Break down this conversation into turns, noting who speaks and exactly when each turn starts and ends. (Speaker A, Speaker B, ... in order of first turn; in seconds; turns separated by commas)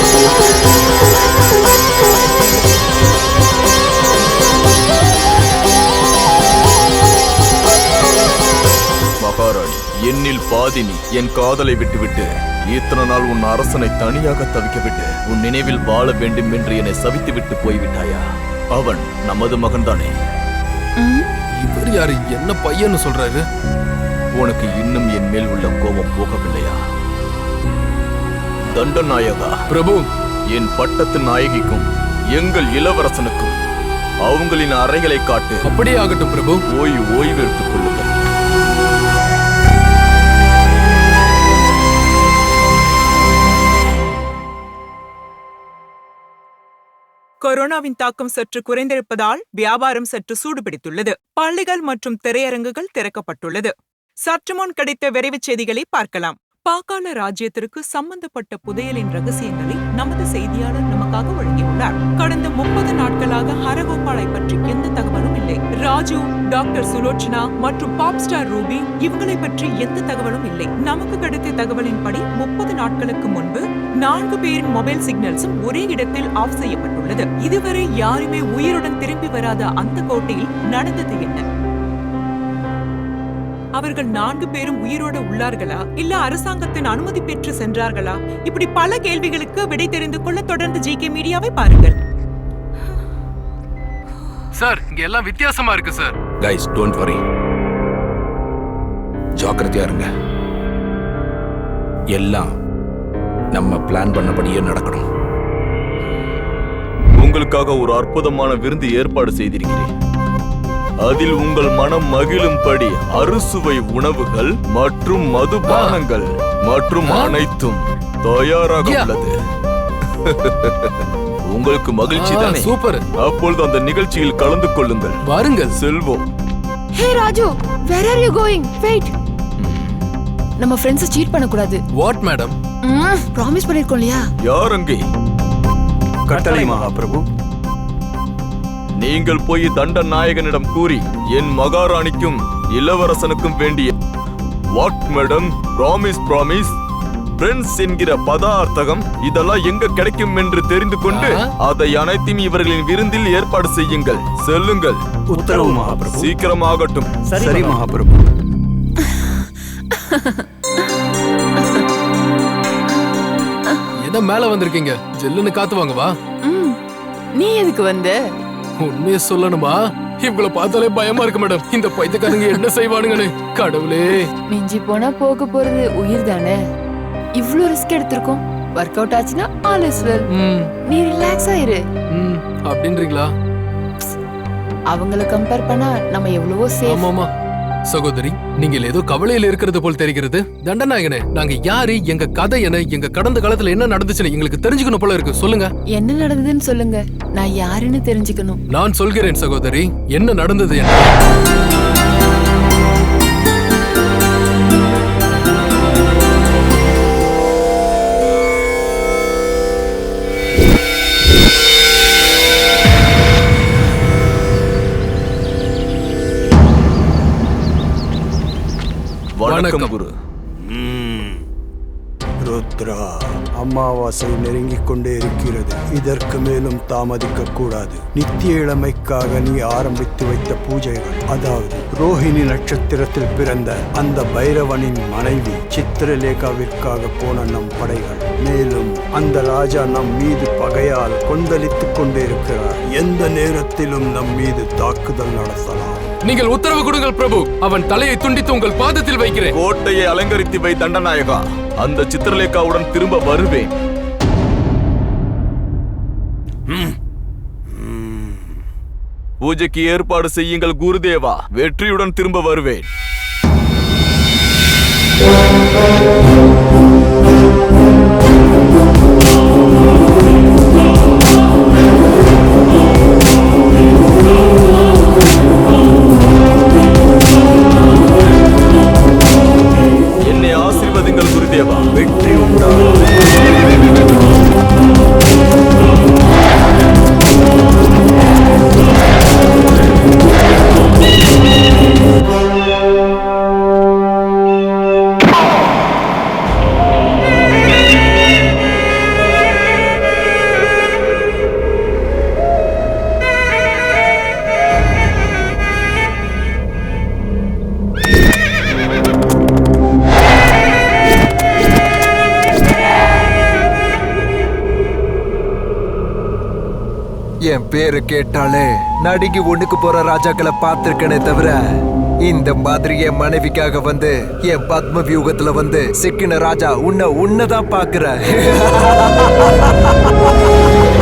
Speaker A: 9.2-18.2, Speaker A: 18.8-20.1, Speaker B: 21.0-21.3, Speaker C: 21.6-23.4, Speaker A: 24.4-26.8, Speaker A: 28.7-29.5, Speaker C: 29.7-30.1, Speaker A: 30.5-33.5, Speaker A: 34.3-35.6, Speaker C: 35.7-36.6, Speaker A: 36.7-38.1, Speaker D: 47.4-81.5, Speaker D: 83.8-92.0, Speaker C: 94.6-96.2, Speaker E: 96.4-97.2, Speaker E: 99.4-100.1, Speaker E: 102.1-102.5, Speaker E: 103.5-105.1, Speaker A: 107.2-109.9, Speaker A: 111.0-119.3, Speaker C: 115.7-116.0, Speaker C: 117.0-117.4, Speaker C: 118.8-119.1, Speaker A: 120.2-125.2, Speaker C: 122.1-123.0, Speaker C: 125.3-125.8, Speaker A: 125.7-126.3, Speaker B: 127.0-129.1, Speaker A: 129.6-129.9, Speaker B: 130.6-131.8, Speaker C: 131.9-132.6, Speaker B: 132.8-134.2, Speaker A: 134.4-135.0, Speaker F: 136.3-137.3, Speaker A: 139.0-143.9, Speaker A: 144.8-146.8, Speaker A: 147.4-155.0, Speaker C: 151.1-151.5, Speaker F: 155.3-156.3, Speaker A: 155.6-157.1, Speaker F: 157.3-158.2, Speaker B: 159.9-160.4, Speaker C: 164.0-166.1, Speaker B: 166.4-166.8, Speaker B: 167.4-168.3, Speaker C: 168.8-174.3, Speaker B: 174.5-176.6, Speaker B: 177.4-180.3, Speaker C: 180.3-180.7, Speaker B: 180.9-181.8, Speaker C: 182.1-183.3, Speaker B: 184.9-187.1, Speaker C: 186.8-187.3, Speaker C: 187.9-195.7, Speaker B: 195.9-198.6, Speaker C: 198.7-201.1, Speaker A: 219.4-220.1, Speaker C: 219.5-219.9, Speaker F: 220.7-221.4, Speaker F: 222.4-246.1, Speaker C: 246.2-249.6, Speaker A: 249.5-253.7, Speaker A: 259.4-262.9, Speaker A: 280.3-281.9, Speaker F: 281.9-283.1, Speaker G: 317.5-321.6, Speaker G: 322.2-329.1